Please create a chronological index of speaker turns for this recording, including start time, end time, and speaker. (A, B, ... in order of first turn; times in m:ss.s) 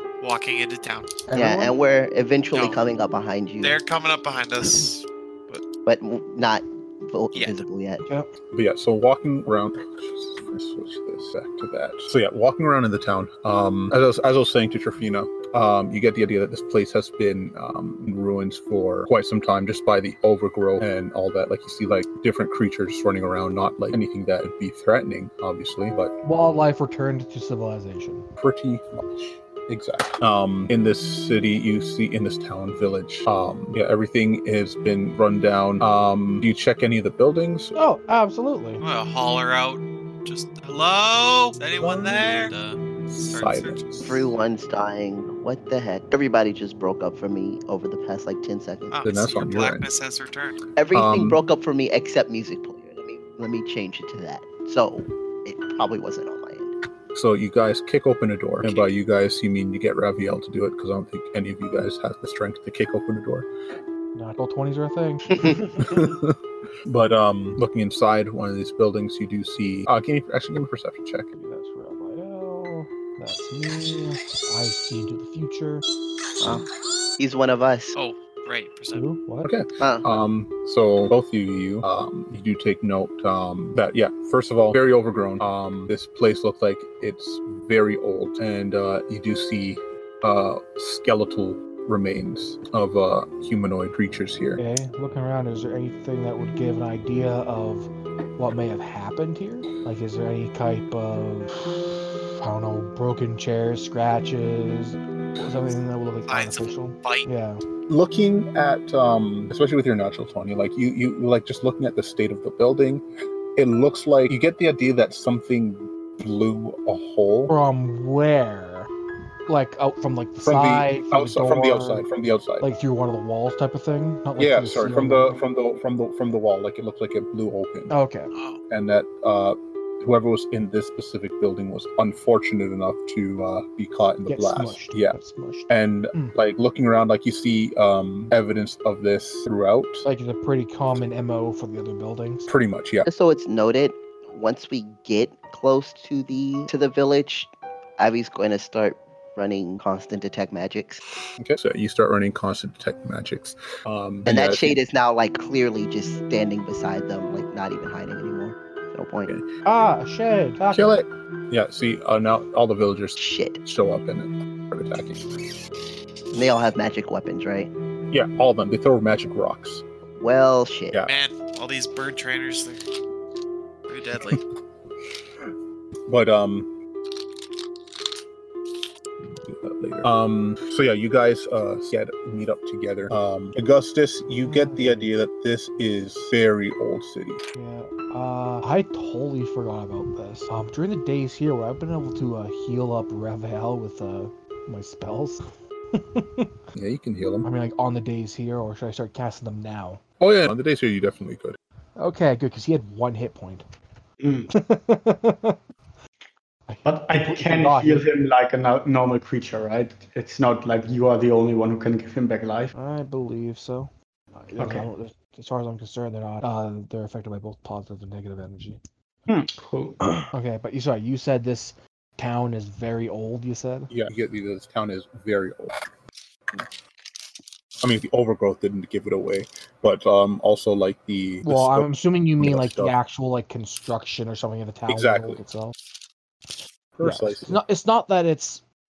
0:00.2-0:01.2 A
0:01.3-0:01.7 B
0:01.3-0:03.8 C
0:02.5-0:02.8 A
0:03.6-0:05.6 A
0:05.8-0:08.0 C
0:07.3-0:07.6 A
0:08.5-0:26.1 D
0:26.2-0:28.2 B
0:28.4-0:37.7 D
0:37.7-0:38.8 B
0:38.8-0:44.2 A
0:41.8-0:42.5 D
0:43.1-0:44.2 D
0:44.0-0:49.0 C
0:48.9-0:50.6 A
0:49.0-0:49.9 D
0:50.8-0:56.7 C
0:50.9-0:51.4 D
0:57.1-1:03.5 D
0:58.6-0:58.9 A
1:04.1-1:06.0 B
1:05.3-1:05.6 C
1:05.8-1:11.3 D
1:11.3-1:15.8 B
1:16.4-1:16.6 C
1:17.2-1:18.0 C
1:18.0-1:19.0 A
1:18.9-1:19.5 B
1:19.4-1:34.6 D
1:19.8-1:20.0 C
1:34.6-1:47.6 B
1:46.3-1:47.2 A
1:47.9-1:53.0 D
1:53.6-1:57.5 D
1:57.5-1:58.9 B
1:59.5-2:02.1 B
2:00.4-2:02.7 D
2:02.6-2:05.4 B
2:04.4-2:07.9 D
2:07.9-2:08.3 B
2:08.3-2:08.6 A
2:08.7-2:15.2 D
2:14.3-2:16.4 B
2:15.7-2:20.0 D
2:20.0-2:22.5 B
2:22.5-2:23.1 D
2:23.0-2:31.0 C
2:31.4-2:34.8 D
2:34.2-2:39.3 C
2:39.6-2:40.9 B
2:40.7-2:45.3 D
2:43.2-2:43.6 C
2:46.3-2:47.7 C
2:48.1-2:49.8 D
2:50.2-2:51.0 C
2:51.1-2:52.8 A
2:53.9-2:54.4 A
2:56.1-2:56.7 D
2:59.5-3:07.4 D
3:04.2-3:05.1 B
3:07.5-3:16.5 B
3:16.7-3:17.5 D
3:17.4-3:20.0 B
3:20.2-3:21.6 D
3:22.0-3:23.6 B
3:24.2-3:24.5 E
3:24.5-3:25.6 B
3:26.7-3:28.1 B
3:26.8-3:32.7 E
3:32.7-3:38.8 B
3:34.5-3:34.9 E
3:39.3-3:40.2 E
3:40.3-3:43.9 B
3:43.9-3:45.8 D
3:47.8-3:52.9 D
3:51.4-3:55.7 B
3:54.9-3:55.4 D
3:57.0-3:57.6 D
3:57.0-3:58.6 B